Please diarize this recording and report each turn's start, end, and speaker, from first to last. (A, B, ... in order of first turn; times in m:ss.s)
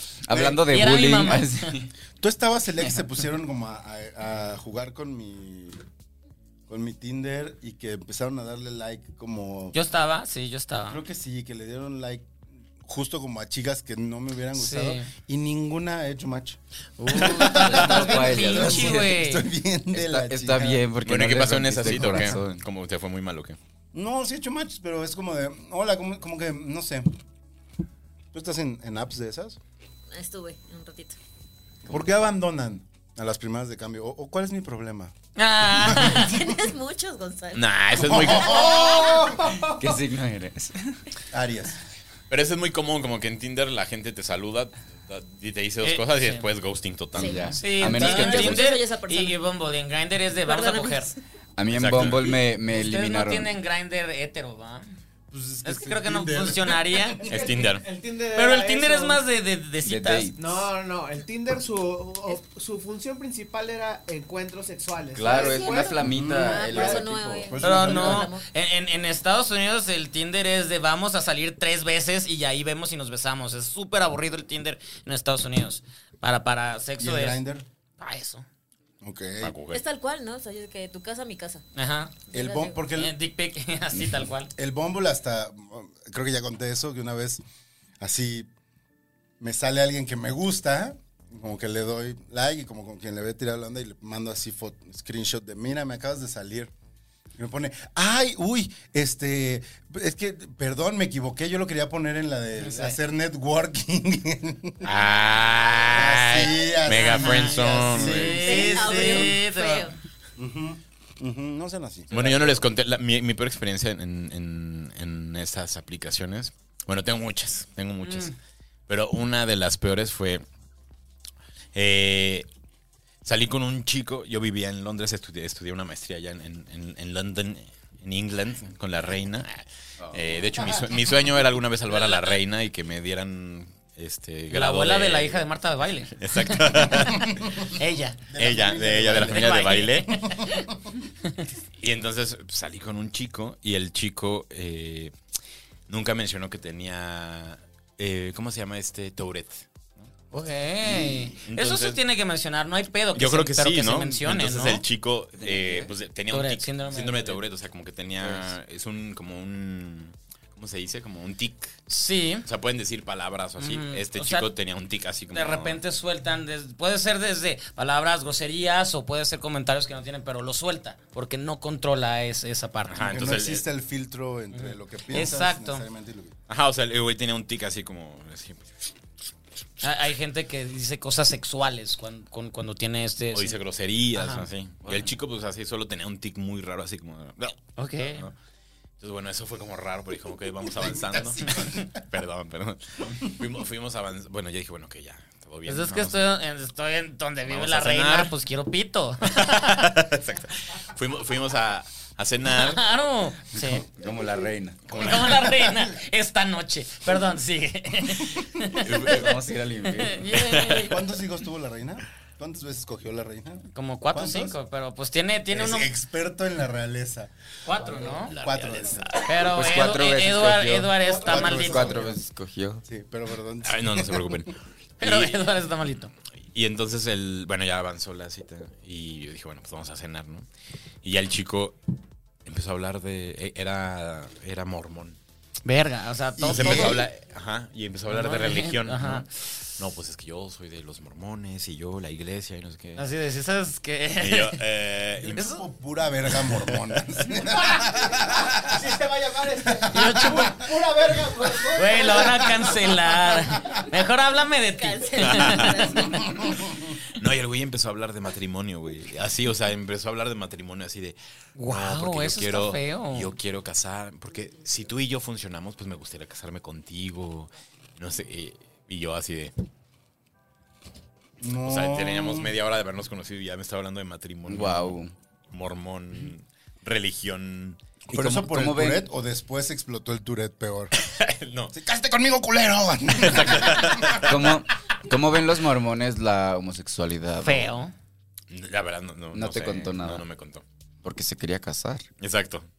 0:00.3-0:01.9 A
0:00.3-0:00.6 B
0:00.7-0:01.7 C
0:02.2-0:05.8 B
0:06.7-0:09.8 B
0:09.7-0:11.0 C
0:10.8-0:12.3 B
0:12.8-0:20.9 B
0:14.6-0:15.1 C
0:17.0-0:19.5 C
0:17.2-0:19.2 A
0:19.9-0:22.6 A
0:21.0-0:23.6 D
0:21.9-0:22.3 B
0:23.9-0:27.2 B
0:28.3-0:29.6 B
0:30.1-0:31.2 E
0:31.9-0:35.2 B
0:35.4-0:36.4 C
0:35.8-0:36.5 B
0:36.0-0:39.4 E
0:37.5-0:38.8 D
0:38.0-0:39.9 B
0:39.6-0:41.0 A
0:41.3-0:41.8 B
0:42.3-0:47.6 D
0:45.8-0:46.5 C
0:47.2-0:48.7 A
0:47.2-0:49.4 E
0:47.6-0:51.1 C
0:47.8-0:48.5 B
0:50.4-0:51.2 E
0:51.6-0:53.5 A
0:51.7-0:52.4 D
0:52.7-0:54.8 C
0:55.3-0:57.2 B
0:55.6-0:57.2 C
0:57.2-0:59.2 F
0:57.3-0:57.8 D
0:58.3-1:00.4 C
0:59.8-1:00.4 A
1:00.4-1:06.0 F
1:05.2-1:07.5 A
1:05.3-1:08.4 E
1:06.0-1:08.3 B
1:06.6-1:07.1 F
1:07.6-1:17.4 C
1:17.0-1:17.7 B
1:18.0-1:18.5 C
1:19.0-1:19.6 B
1:19.4-1:19.8 D
1:19.7-1:21.6 E
1:21.8-1:22.2 C
1:22.3-1:22.8 E
1:22.3-1:23.2 B
1:22.9-1:24.5 C
1:24.6-1:27.4 B
1:28.0-1:28.5 B
1:29.4-1:36.7 B
1:37.4-1:45.0 B
1:42.6-1:43.0 C
1:44.8-1:48.5 D
1:45.9-1:49.5 B
1:47.0-1:49.9 C
1:48.4-1:49.9 E
1:50.4-1:52.6 B
1:52.1-1:58.3 D
1:58.0-1:58.4 C
1:58.9-2:00.4 D
2:01.7-2:02.5 D
2:03.2-2:15.4 D
2:10.0-2:10.4 A
2:11.9-2:12.4 C
2:14.5-2:18.2 C
2:16.2-2:17.3 D
2:18.3-2:20.8 B
2:18.4-2:20.2 D
2:19.2-2:20.7 C
2:21.8-2:25.1 D
2:25.9-2:30.1 D
2:30.3-2:34.8 C
2:30.9-2:31.3 B
2:31.4-2:32.0 D
2:33.1-2:41.8 D
2:35.4-2:35.9 A
2:36.3-2:37.4 C
2:38.2-2:38.5 A
2:41.9-2:42.5 C
2:42.4-2:45.8 D
2:43.6-2:44.5 C
2:45.3-2:53.0 C
2:52.9-2:53.6 D
2:53.0-2:56.4 B
2:54.5-2:55.8 C
2:56.5-2:58.7 D
2:59.8-3:03.6 C
3:03.3-3:08.4 D
3:04.1-3:04.5 C
3:04.8-3:05.1 A
3:07.8-3:08.3 C
3:09.0-3:16.3 D
3:10.8-3:11.8 B
3:15.7-3:19.8 C
3:17.5-3:18.3 D
3:19.3-3:22.8 D
3:22.5-3:23.9 C
3:23.6-3:25.2 A
3:24.9-3:29.0 C
3:24.9-3:25.2 D
3:28.8-3:30.3 A
3:28.8-3:29.4 D
3:30.0-3:31.0 C
3:30.3-3:30.9 D
3:30.8-3:34.6 B
3:33.7-3:35.9 C
3:35.5-3:39.2 B
3:37.7-3:38.3 C
3:38.2-3:39.4 D
3:39.2-3:42.0 C
3:39.4-3:42.8 A
3:41.0-3:41.3 F
3:41.2-3:42.2 B
3:42.9-3:44.4 B
3:43.6-3:45.4 D
3:45.0-3:46.1 C
3:46.4-3:50.5 D
3:51.0-3:51.8 D
3:52.5-3:55.2 D
3:55.6-3:57.0 C
3:56.4-3:57.1 B
3:56.5-4:03.0 D
3:58.1-3:59.2 C
4:03.0-4:04.6 C
4:04.2-4:05.5 D
4:05.2-4:08.9 B
4:06.5-4:07.0 D
4:08.2-4:13.0 F
4:09.9-4:10.6 C
4:10.0-4:10.5 B
4:11.8-4:15.8 C
4:14.7-4:16.4 E
4:15.2-4:15.7 D
4:15.9-4:16.9 B
4:17.1-4:29.5 D
4:21.6-4:23.4 C
4:31.4-4:32.5 B
4:31.6-4:35.0 D
4:34.5-4:35.1 A
4:35.5-4:37.8 D
4:38.1-4:39.1 A
4:38.1-4:40.9 B
4:41.0-4:41.7 D
4:41.7-4:44.2 B
4:43.2-4:44.5 D
4:44.2-4:47.7 A
4:47.4-4:47.9 C
4:48.5-4:50.6 D
4:49.3-4:50.2 A
4:51.0-4:52.1 A
4:52.2-4:52.7 D